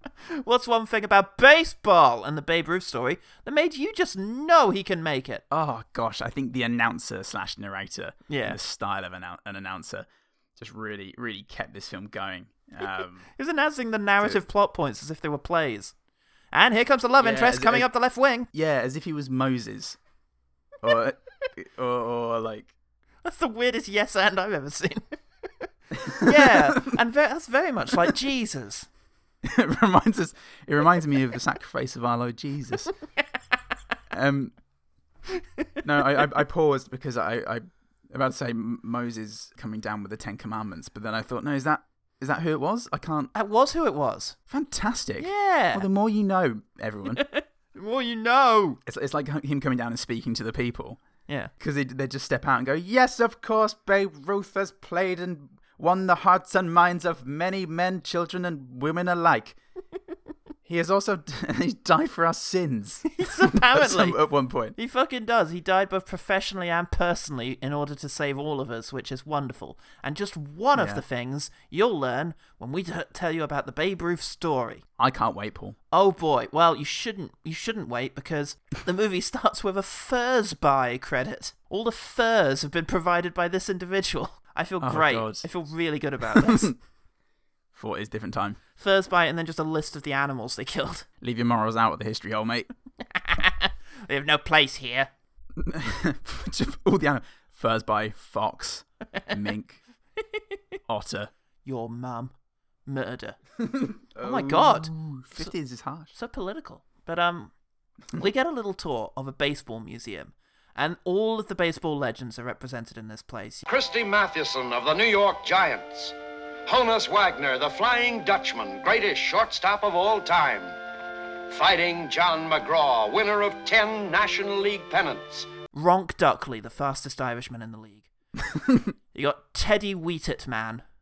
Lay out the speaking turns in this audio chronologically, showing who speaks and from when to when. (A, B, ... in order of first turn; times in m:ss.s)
0:00.3-0:05.4 A
0:05.5-0:13.2 B
0:08.3-0:08.6 A
0:13.4-0:15.9 A
0:16.5-0:18.5 A
0:17.2-0:17.9 B
0:18.5-0:20.0 B
0:20.8-0:22.7 B
0:23.2-0:28.9 A
0:26.0-0:26.9 B
0:29.4-0:32.9 B
0:34.1-0:34.6 B
0:35.8-0:43.3 B
0:43.3-0:44.4 A
0:44.5-0:47.2 B
0:45.2-0:45.9 A
0:47.1-0:48.8 A
0:48.8-0:51.0 B
0:51.3-0:51.5 A
0:51.6-0:59.6 B
1:00.6-1:04.8 B
1:03.1-1:04.2 A
1:04.8-1:14.8 A
1:10.7-1:11.0 B
1:15.0-1:15.8 B
1:15.9-1:26.8 A
1:24.8-1:25.5 B
1:26.3-1:26.7 B
1:27.7-1:28.6 B
1:28.8-1:31.1 A
1:31.2-1:32.7 B
1:33.1-1:35.1 A
1:35.6-1:39.8 B
1:40.9-1:41.3 B
1:41.6-1:42.3 A
1:42.9-1:43.4 A
1:43.6-1:46.1 B
1:44.2-1:45.5 A
1:46.1-1:47.5 A
1:48.1-1:53.6 A
1:53.6-1:56.1 C
1:56.6-2:00.8 C
2:01.5-2:05.5 C
2:05.7-2:08.1 A
2:08.5-2:08.9 B
2:09.1-2:10.8 A